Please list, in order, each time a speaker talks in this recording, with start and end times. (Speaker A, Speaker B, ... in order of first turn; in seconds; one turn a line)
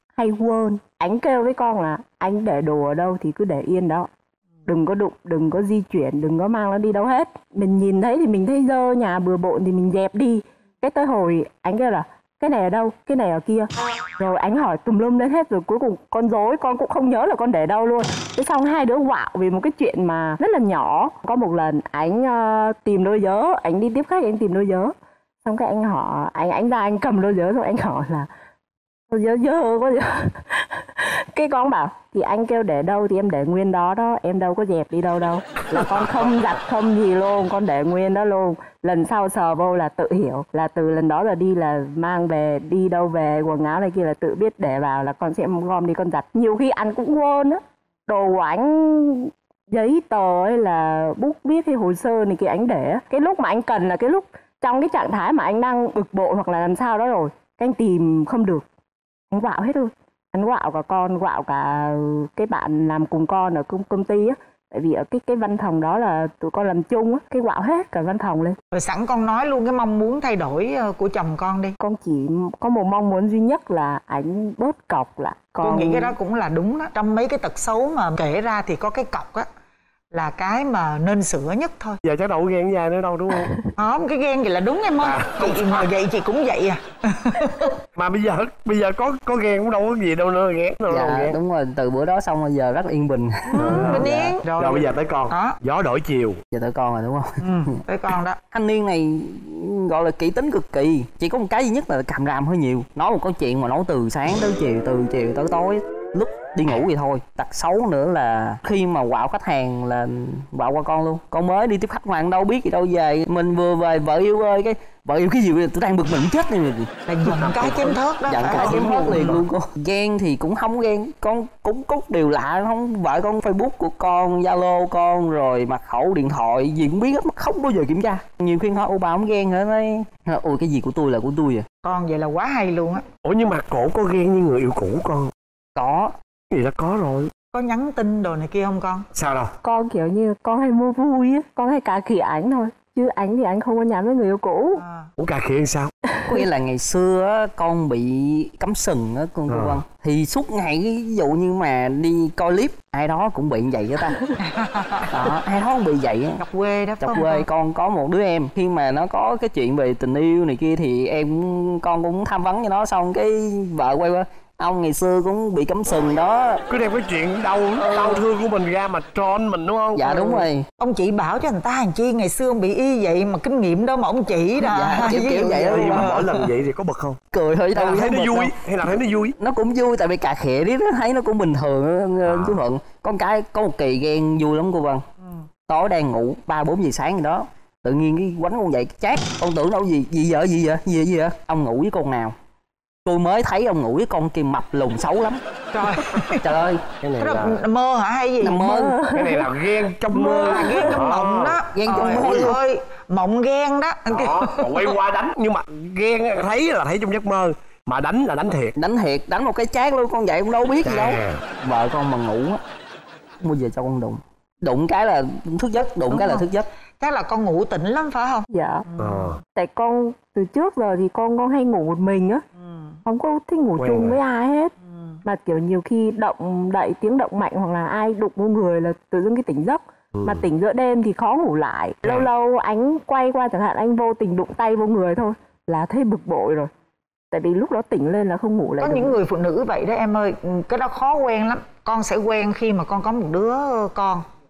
Speaker A: 0.2-4.1
Speaker A: 4.7-28.3
Speaker A: 29.1-58.6
Speaker A: 59.3-68.6
Speaker B: 68.7-71.8
Speaker A: 71.8-76.2
Speaker B: 75.6-79.5
Speaker B: 80.1-82.0
Speaker C: 82.0-83.5
Speaker B: 83.8-87.7
Speaker C: 85.0-85.9
Speaker C: 88.0-91.4
Speaker D: 90.9-94.3
Speaker B: 93.5-95.6
Speaker C: 93.6-96.4
Speaker D: 96.5-97.3
Speaker B: 97.4-98.4
Speaker D: 98.5-116.9
Speaker B: 117.1-119.3
Speaker C: 117.3-118.0
Speaker D: 118.3-131.7
Speaker C: 118.6-119.5
Speaker B: 131.8-133.0
Speaker C: 133.2-135.3
Speaker D: 135.8-136.1
Speaker C: 136.5-137.3
Speaker B: 137.5-139.1
Speaker C: 139.1-139.5
Speaker A: 139.6-144.8
Speaker B: 144.8-145.1
Speaker C: 145.2-145.9
Speaker D: 146.3-154.2
Speaker C: 149.5-149.8
Speaker B: 154.4-155.1
Speaker D: 155.1-156.4
Speaker B: 156.4-157.5
Speaker D: 157.0-166.6
Speaker C: 166.7-170.0
Speaker D: 167.9-168.2
Speaker D: 169.9-170.6
Speaker B: 170.1-176.3
Speaker D: 174.6-176.2
Speaker C: 175.3-177.2
Speaker D: 177.3-178.5
Speaker C: 177.8-179.4
Speaker D: 179.4-185.0
Speaker C: 182.2-182.6
Speaker D: 185.7-192.3
Speaker D: 193.1-195.4
Speaker B: 195.7-196.4
Speaker D: 196.4-196.9
Speaker C: 197.0-197.6
Speaker B: 197.2-198.6
Speaker D: 198.4-198.9
Speaker A: 198.6-199.5
Speaker C: 199.1-202.5
Speaker B: 200.1-204.9
Speaker D: 201.7-202.6
Speaker C: 204.1-208.8
Speaker D: 208.8-212.6
Speaker C: 210.8-211.4
Speaker D: 213.4-216.7
Speaker B: 216.1-216.5
Speaker B: 217.0-219.4
Speaker A: 218.5-218.9
Speaker C: 219.0-219.4
Speaker A: 219.6-222.4
Speaker B: 222.6-222.9
Speaker A: 223.1-224.7
Speaker C: 223.8-224.2
Speaker A: 225.2-236.7
Speaker C: 230.2-230.5
Speaker A: 237.3-239.2
Speaker B: 238.8-244.2